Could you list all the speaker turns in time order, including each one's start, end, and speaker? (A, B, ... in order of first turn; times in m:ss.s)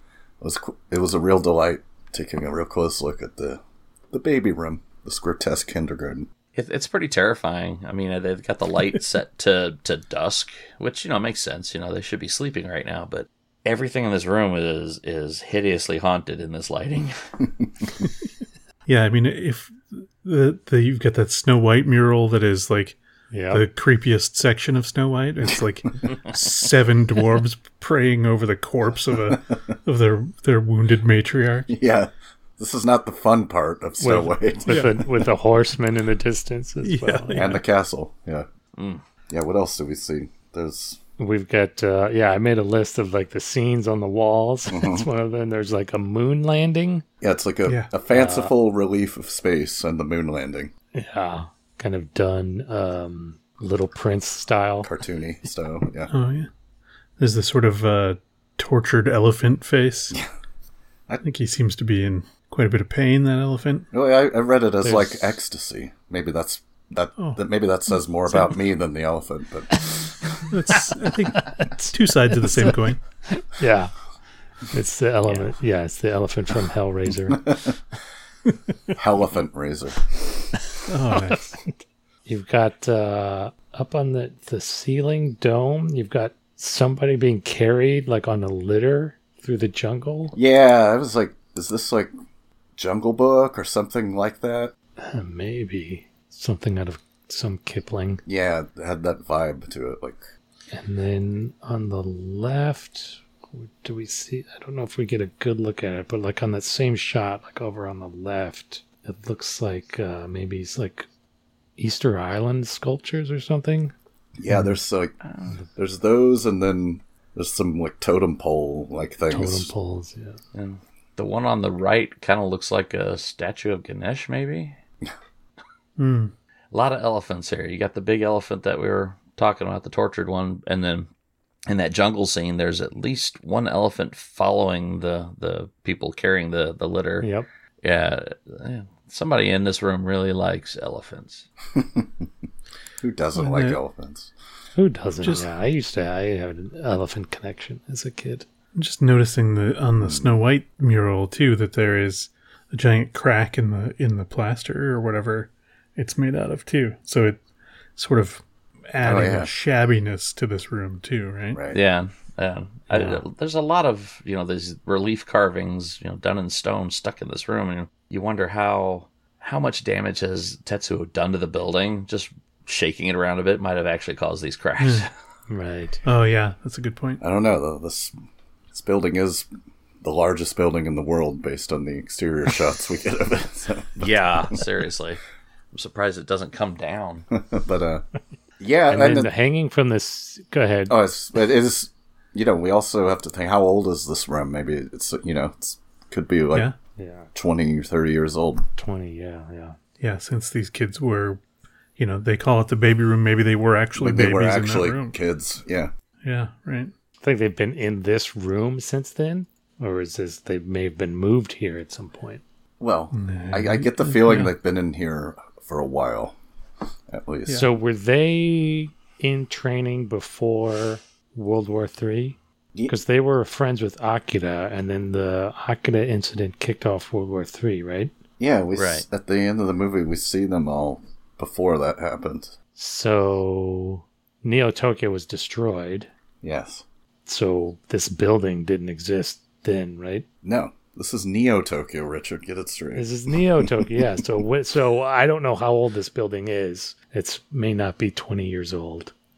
0:00.4-0:06.3 A
0:06.5-0:17.3 B
0:18.8-0:23.0 C
0:23.3-0:23.6 D
0:23.5-0:31.7 C
0:29.3-0:29.6 A
0:31.7-0:35.0 A
0:34.0-0:37.4 D
0:34.7-0:34.9 C
0:36.8-0:37.6 C
0:37.3-0:38.5 A
0:38.8-0:39.0 B
0:39.3-0:41.0 A
0:41.2-0:47.0 D
0:44.7-0:45.1 A
0:47.2-0:50.7 A
0:47.6-0:47.9 C
0:48.1-0:48.5 D
0:50.9-0:54.9 D
0:54.8-0:56.1 A
0:56.1-0:56.5 C
0:57.2-1:00.2 C
1:01.2-1:03.9 C
1:03.9-1:10.4 A
1:04.8-1:05.3 D
1:08.3-1:08.6 C
1:10.5-1:13.0 C
1:11.3-1:13.9 D
1:14.7-1:17.6 D
1:17.3-1:17.7 A
1:19.0-1:20.6 A
1:20.8-1:21.5 C
1:22.3-1:30.3 D
1:30.3-1:32.1 A
1:32.8-1:34.7 A
1:35.0-1:38.2 D
1:38.2-1:40.2 A
1:40.7-1:51.1 D
1:51.8-1:53.9 D
1:54.4-1:55.1 A
1:55.2-1:55.6 B
1:55.7-1:59.7 A
1:59.3-2:00.4 D
2:00.5-2:04.8 B
2:06.0-2:06.3 C
2:06.7-2:11.1 B
2:11.7-2:17.3 B
2:17.2-2:17.5 D
2:17.8-2:21.5 B
2:21.7-2:22.3 A
2:23.0-2:24.3 A
2:23.3-2:23.8 C
2:24.7-2:28.4 D
2:25.2-2:25.5 C
2:28.7-2:37.4 C
2:30.0-2:30.4 A
2:38.0-2:41.6 C
2:39.0-2:39.5 A
2:41.5-2:41.8 A
2:41.7-2:55.1 B
2:42.9-2:43.2 C
2:54.8-2:55.0 C
2:55.5-2:56.0 D
2:56.0-2:57.2 C
2:57.2-2:58.1 A
2:58.7-2:59.5 A
3:00.0-3:04.6 A
3:04.0-3:05.2 B
3:05.7-3:07.3 B
3:07.3-3:08.0 A
3:08.6-3:09.3 A
3:08.9-3:10.9 D
3:10.9-3:16.7 A
3:17.0-3:17.3 D
3:17.3-3:18.6 A
3:18.8-3:19.8 D
3:20.0-3:21.4 C
3:22.0-3:25.2 C
3:23.9-3:25.9 A
3:26.2-3:26.9 C
3:27.2-3:32.4 D
3:32.8-3:36.4 A
3:33.1-3:34.5 C
3:37.1-3:37.7 A
3:37.5-3:48.1 D
3:48.4-3:52.5 A
3:48.7-3:49.0 B
3:52.8-3:56.1 D
3:56.4-3:56.8 A
3:57.2-4:00.2 D
4:00.4-4:03.1 A
4:03.0-4:09.1 D
4:03.6-4:04.0 A